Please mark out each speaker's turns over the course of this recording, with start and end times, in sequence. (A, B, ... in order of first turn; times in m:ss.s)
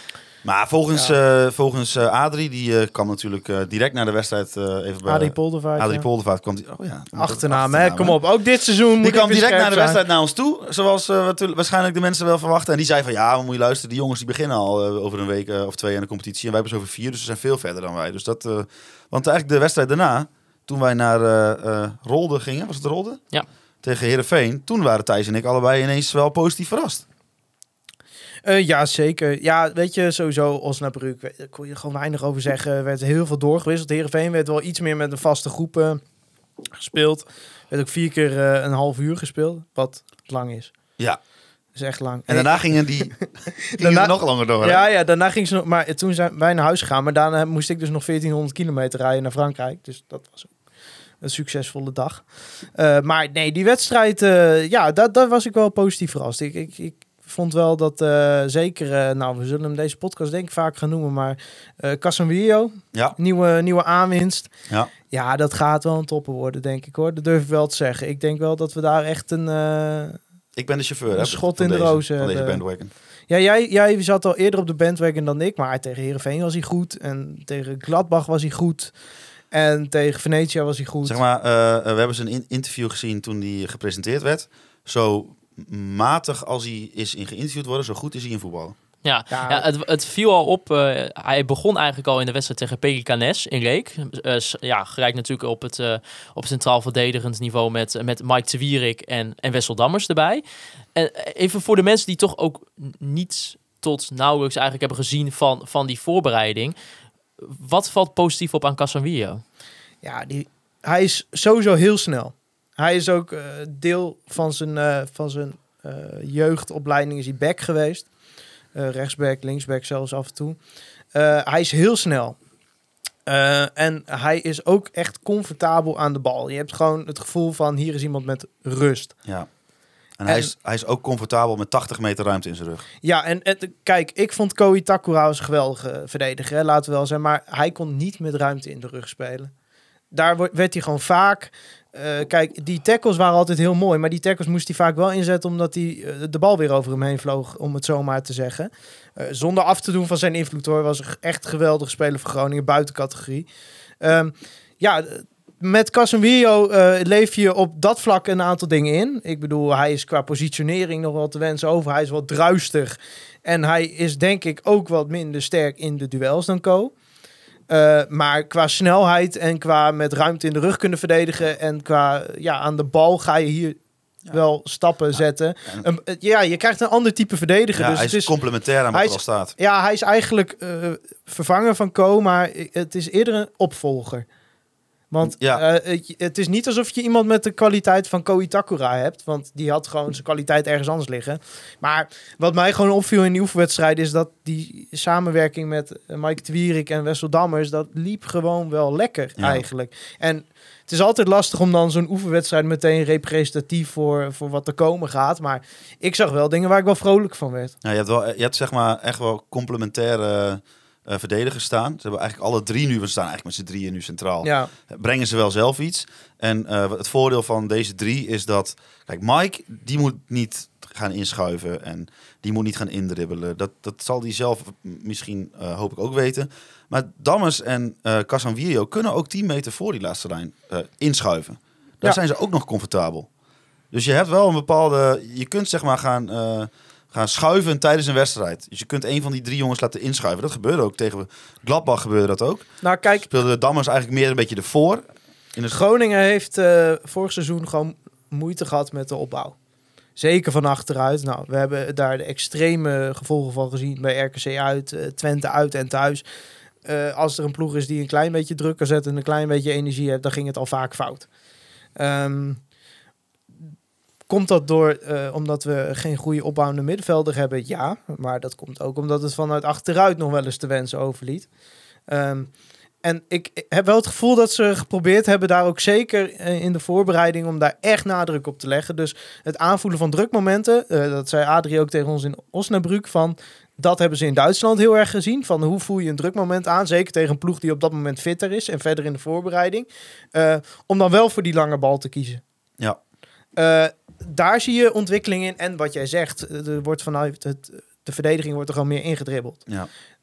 0:00.4-0:08.2 A
0:05.1-0:06.1 B
0:07.2-0:10.0 B
0:09.0-0:23.2 A
0:23.8-0:27.0 A
0:28.4-0:36.0 B
0:36.8-0:40.7 B
0:41.8-0:50.5 B
0:42.3-0:43.2 A
0:43.7-0:44.8 A
0:51.2-0:52.2 B
0:52.8-1:04.5 B
1:05.1-1:10.2 B
1:10.6-1:12.9 A
1:11.1-1:12.6 B
1:13.3-1:18.9 B
1:19.5-1:21.2 B
1:21.0-1:28.8 A
1:29.0-1:40.4 C
1:29.3-1:29.7 B
1:41.0-1:46.8 C
1:47.4-1:49.4 C
1:50.0-1:58.1 B
1:58.8-2:00.6 B
2:01.2-2:02.4 B
2:03.3-2:09.1 B
2:10.2-2:12.8 A
2:13.0-2:19.5 B
2:20.1-2:33.5 B
2:34.0-2:46.9 B
2:47.7-2:53.8 B
2:54.3-2:58.3 B
2:57.8-2:59.6 A
2:58.9-3:04.3 B
3:05.1-3:27.8 B
3:05.2-3:05.6 A
3:19.4-3:19.6 A
3:27.8-3:53.3 A
3:34.4-3:34.7 B
3:53.9-4:02.7 A
4:02.8-4:03.3 B
4:03.2-4:05.0 A
4:05.7-4:09.6 B
4:10.2-4:16.2 B
4:16.8-4:21.3 B
4:22.0-4:22.6 B
4:24.3-4:31.5 B
4:32.1-4:32.5 B
4:33.0-4:52.4 B
4:53.6-4:59.6 B